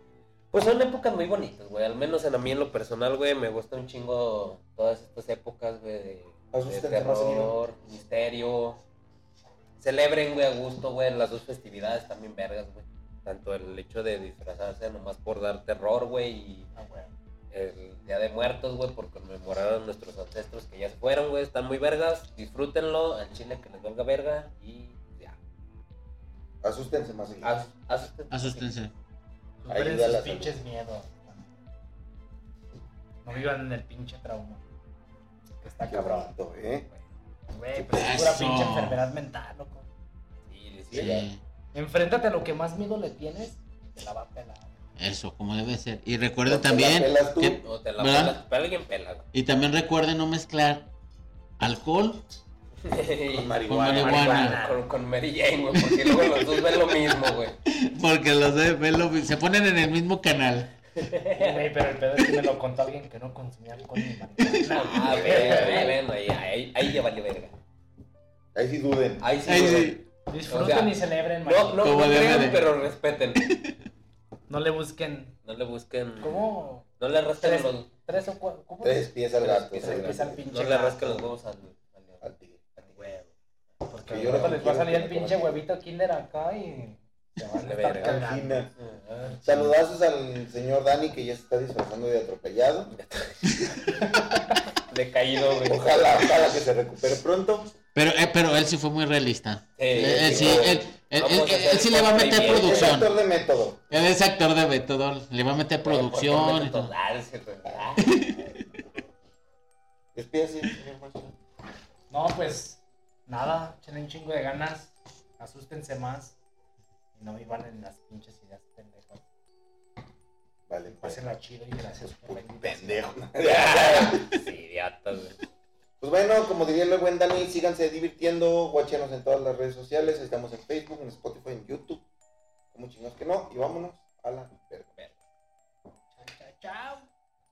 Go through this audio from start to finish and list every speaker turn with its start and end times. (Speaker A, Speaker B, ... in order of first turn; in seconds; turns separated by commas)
Speaker A: 0.5-8.8, Speaker B: 6.5-7.5, Speaker A: 9.8-16.7, Speaker C: 16.7-17.1, Speaker A: 17.5-25.4, Speaker B: 26.6-27.5, Speaker A: 27.4-28.8, Speaker D: 28.3-28.9, Speaker C: 29.6-31.6, Speaker B: 29.7-30.6, Speaker C: 33.2-34.6, Speaker C: 35.6-36.3, Speaker B: 35.9-36.9, Speaker C: 37.5-39.9, Speaker B: 37.8-38.3, Speaker D: 37.9-39.0, Speaker A: 40.5-41.3, Speaker B: 40.9-41.3, Speaker D: 40.9-41.4, Speaker C: 41.7-44.8, Speaker D: 45.0-48.4, Speaker B: 46.5-47.6, Speaker A: 47.6-49.2, Speaker D: 49.3-50.9, Speaker D: 51.6-52.3, Speaker A: 52.8-57.5, Speaker B: 53.3-54.3, Speaker D: 53.7-54.6, Speaker C: 54.0-54.8, Speaker D: 55.8-56.8, Speaker D: 57.7-60.7, Speaker A: 61.0-61.7, Speaker C: 61.3-66.0, Speaker D: 64.4-65.0, Speaker A: 64.5-67.5, Speaker B: 65.0-65.9, Speaker B: 68.5-69.3, Speaker A: 69.2-73.4, Speaker D: 69.4-70.0, Speaker C: 70.3-72.0, Speaker D: 71.8-72.7, Speaker D: 73.4-73.7, Speaker C: 74.5-75.4, Speaker A: 75.4-76.4, Speaker C: 76.2-76.8, Speaker A: 77.0-77.9, Speaker C: 77.4-79.1, Speaker B: 78.8-80.4, Speaker A: 79.4-82.2, Speaker C: 79.8-81.3, Speaker B: 82.2-82.8, Speaker A: 82.8-83.1, Speaker C: 82.8-83.3, Speaker C: 83.8-88.7, Speaker B: 84.1-85.6, Speaker A: 84.2-84.5, Speaker A: 87.5-88.2, Speaker B: 88.0-88.7, Speaker A: 88.8-89.4, Speaker B: 89.4-93.0, Speaker A: 92.9-93.4, Speaker C: 93.8-94.6, Speaker A: 94.9-96.3, Speaker B: 95.6-97.7, Speaker D: 97.9-103.1, Speaker A: 99.8-103.0, Speaker B: 99.9-100.8, Speaker B: 102.4-103.8, Speaker D: 103.9-106.9, Speaker A: 105.8-108.1, Speaker D: 108.0-108.6, Speaker B: 110.1-111.3, Speaker C: 112.1-116.4, Speaker C: 117.1-119.2, Speaker B: 120.7-121.2, Speaker C: 120.9-123.1, Speaker B: 122.3-124.3, Speaker A: 123.4-125.4, Speaker B: 126.0-132.0, Speaker B: 132.7-135.0, Speaker C: 136.1-137.1